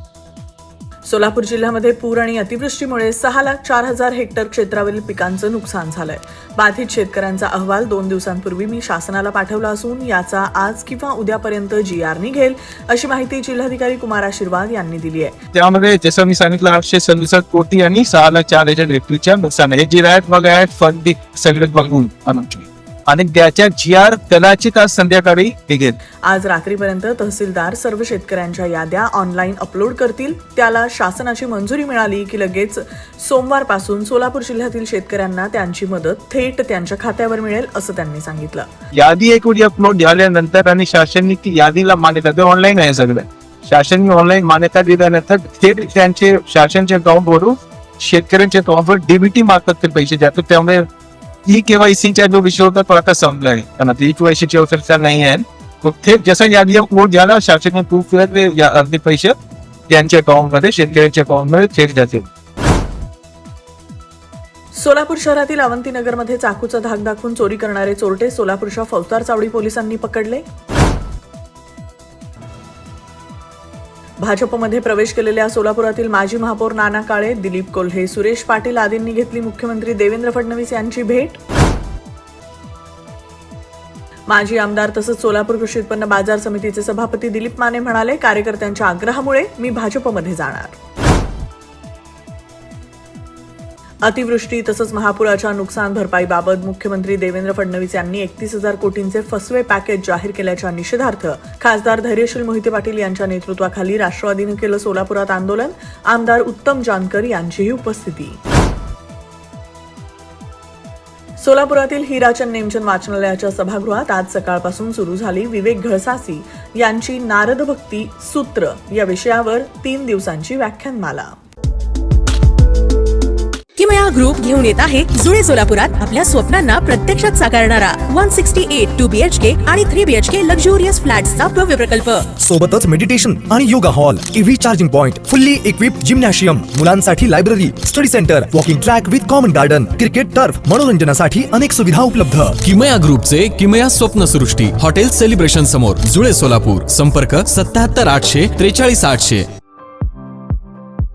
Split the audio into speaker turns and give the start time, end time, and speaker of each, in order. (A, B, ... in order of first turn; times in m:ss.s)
0:01.0-0:15.3 A
0:15.5-0:25.9 B
0:26.2-0:38.7 A
0:39.0-0:50.8 B
0:51.5-0:59.4 B
0:59.9-1:02.2 B
1:04.7-1:10.4 A
1:14.2-1:21.4 A
1:24.3-1:30.8 A
1:34.0-1:48.4 A
1:51.4-2:01.3 A
2:03.8-2:12.3 C
2:12.4-2:22.6 D
2:22.6-2:29.4 E